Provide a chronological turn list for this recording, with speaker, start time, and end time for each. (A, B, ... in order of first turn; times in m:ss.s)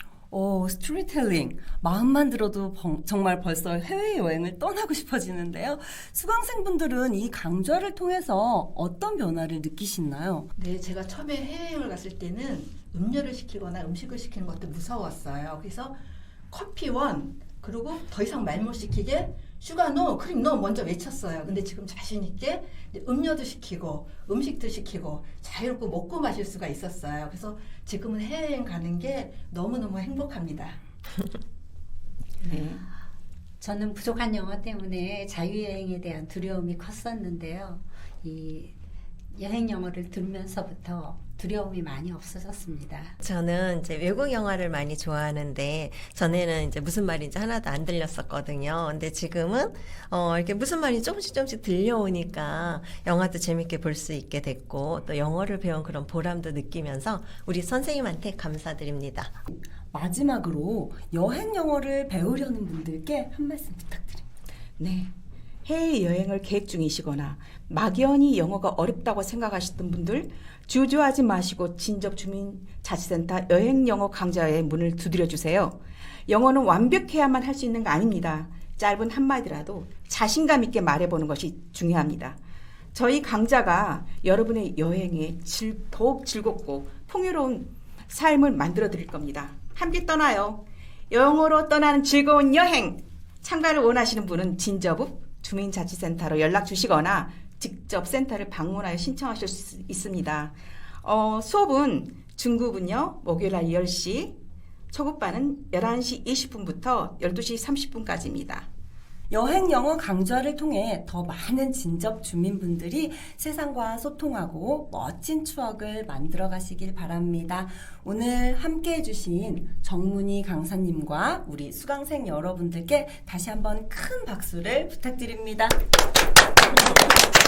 0:00.3-0:10.5 A
0:10.6-0:16.0 B
0:16.5-0:30.8 B
0:32.4-0:32.8 C
0:33.6-0:38.7 D
0:39.3-0:43.1 D
0:43.2-0:59.3 E
0:59.9-1:04.2 A
1:04.8-1:05.1 C
1:05.6-1:22.4 C
1:22.9-1:44.4 C
1:44.9-1:48.7 C
1:49.3-2:05.7 A